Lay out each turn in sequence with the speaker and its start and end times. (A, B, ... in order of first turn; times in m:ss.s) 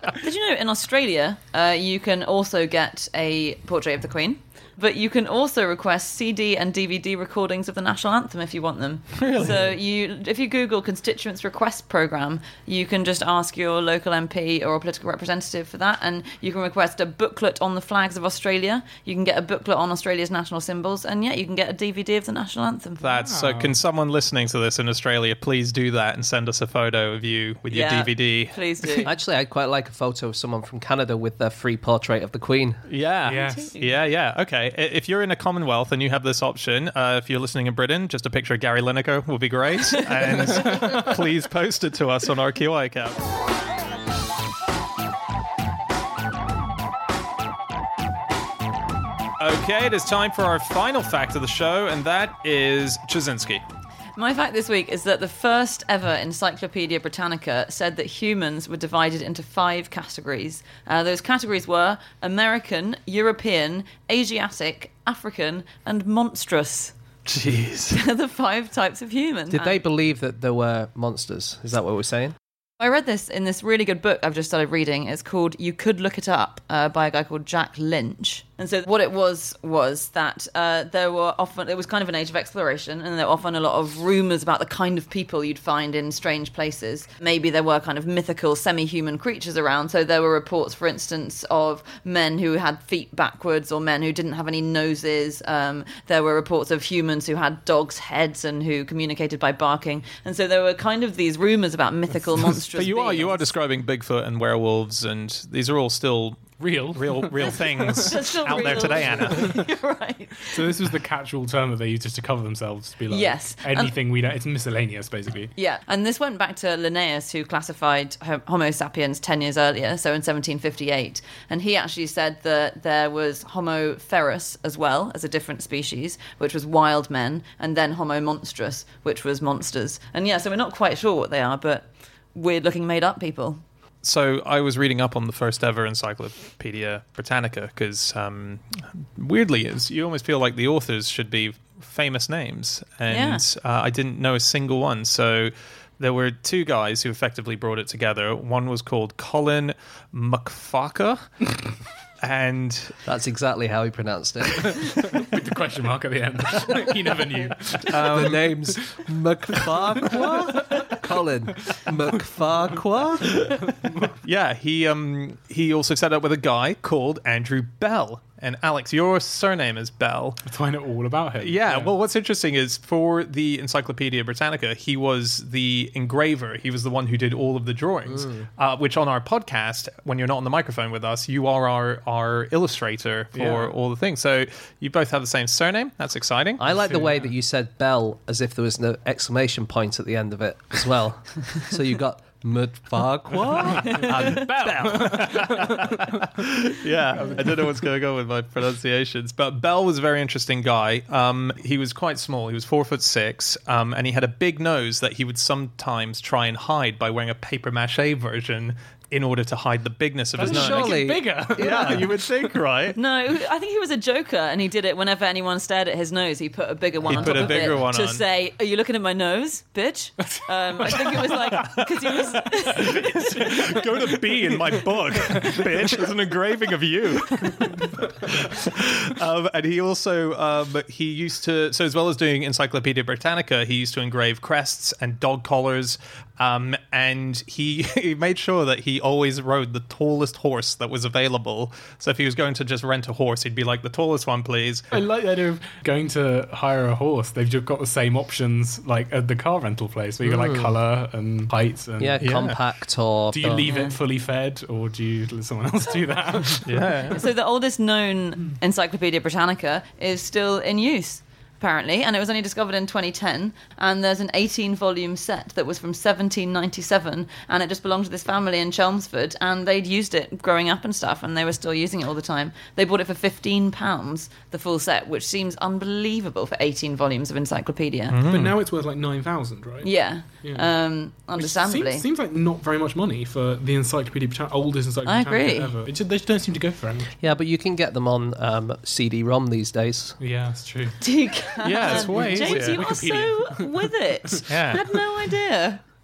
0:00.2-0:23.0 A
0:09.2-0:09.6 B
0:23.0-0:28.6 B
0:23.2-0:23.8 C
0:27.7-0:29.1 A
0:29.0-0:32.8 D
0:32.9-0:43.2 B
0:33.2-0:33.7 C
0:33.3-0:33.9 A
0:40.1-0:40.6 A
0:40.6-0:41.1 C
0:49.4-0:53.6 B
0:54.2-1:07.0 A
1:07.3-1:08.0 B
1:07.9-1:09.8 A
1:09.5-1:12.3 D
1:12.8-1:43.5 A
1:42.7-1:49.6 B
1:46.6-1:48.1 C
1:47.4-1:50.7 A
1:50.4-1:55.5 C
1:53.1-1:53.9 A
1:55.5-2:13.6 A
2:14.0-2:31.6 B
2:23.1-2:23.4 A
2:32.2-2:33.0 B
2:33.0-2:35.0 D
2:34.9-2:39.0 C
2:37.9-2:38.4 B
2:38.0-2:43.5 D
2:39.7-2:40.9 C
2:43.6-2:44.1 C
2:44.1-2:50.4 B
2:50.4-2:51.9 C
2:51.4-3:06.6 B
2:58.2-2:58.4 D
3:03.3-3:03.7 C
3:06.6-3:15.5 D
3:06.7-3:07.3 C
3:14.0-3:31.0 B
3:14.6-3:16.4 C
3:17.2-3:17.6 C
3:30.4-3:32.2 C
3:30.4-3:32.1 D
3:31.6-3:33.0 B
3:32.9-3:43.8 A
3:37.0-3:38.2 B
3:37.2-3:37.5 C
3:40.3-3:41.8 C
3:42.5-3:43.9 C
3:42.8-4:04.9 B
3:45.3-3:45.7 C
3:47.6-3:48.4 C
4:04.9-4:12.6 C
4:10.2-4:10.7 D
4:12.0-4:13.7 D
4:12.2-4:12.6 B
4:13.3-4:16.9 C
4:13.6-4:14.0 A
4:16.6-4:17.2 B
4:17.1-4:38.2 A
4:38.1-4:38.6 B
4:38.2-4:40.7 C
4:39.8-4:42.0 A
4:41.3-4:47.2 C
4:45.0-4:45.8 A
4:47.2-4:50.2 D
4:50.2-4:51.1 C
4:51.0-4:55.8 A
4:51.6-4:52.8 B
4:51.8-4:53.9 C
4:54.5-4:54.9 B